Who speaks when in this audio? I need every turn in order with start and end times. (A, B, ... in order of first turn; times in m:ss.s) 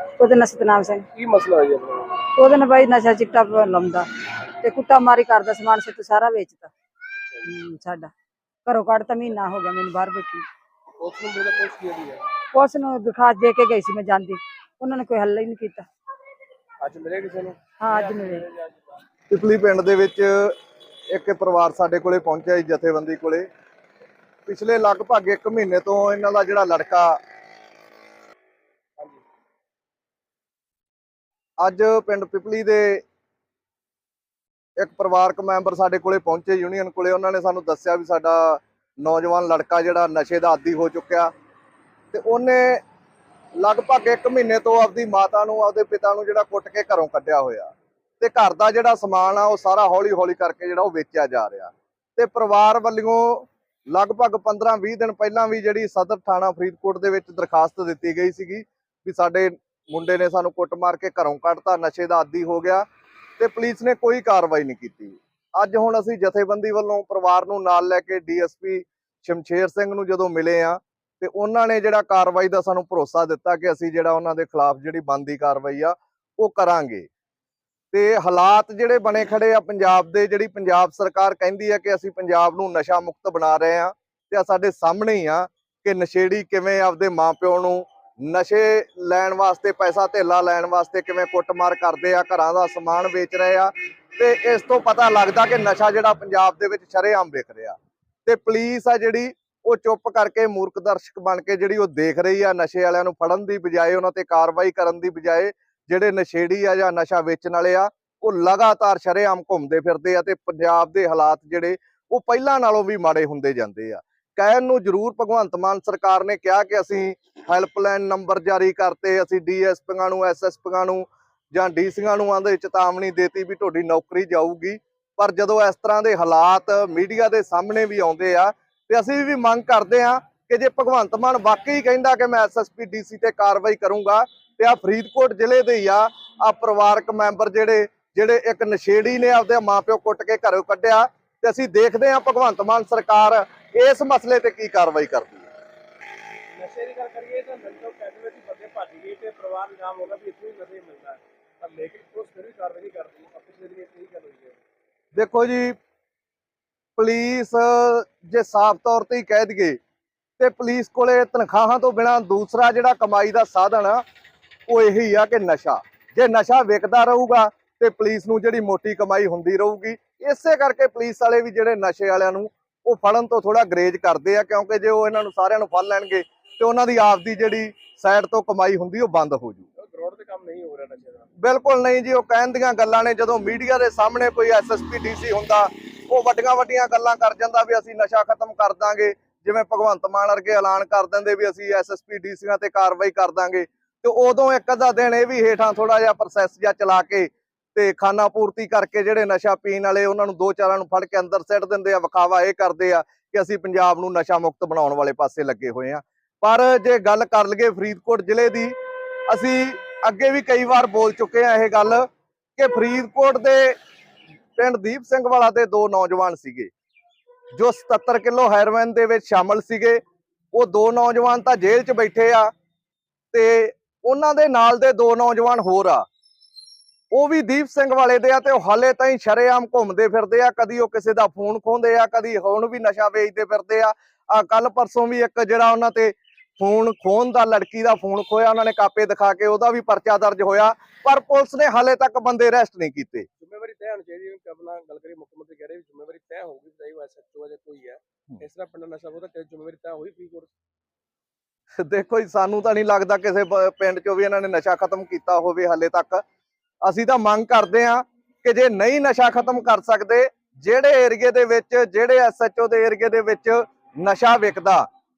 0:00.2-0:01.0 A
0:01.1-0:02.2 B
0:02.3-0:04.1 A
0:04.6-0:06.7 A
0:07.4-0:08.1 A
0:08.6-0:10.4 A
0:11.0-0:12.3 B
0:12.5-0:15.8 A
0:16.8-0:19.0 B
0:17.8-0:18.4 A
0:19.3-0:20.5 C
0:21.1-0:23.5 C
0:24.4-0:27.2 C
0:31.6-0:33.0 C
0:34.8-0:41.3 C
0:42.1-0:42.8 C
0:43.6-1:02.8 C
1:03.4-1:17.1 C
1:17.9-2:25.5 C
2:26.5-2:34.6 B
2:35.1-2:35.8 C
2:37.0-2:39.8 C
2:40.4-2:44.0 C
2:44.7-2:59.6 C
2:59.8-3:01.3 B
3:01.4-3:28.8 C
3:29.3-3:33.8 C
3:34.6-3:36.7 C
3:37.5-3:40.0 C
3:40.5-3:42.5 C
3:43.3-3:46.0 C
3:47.1-4:03.3 C
4:03.4-4:10.5 B
4:11.8-4:16.2 C
4:16.8-4:24.8 C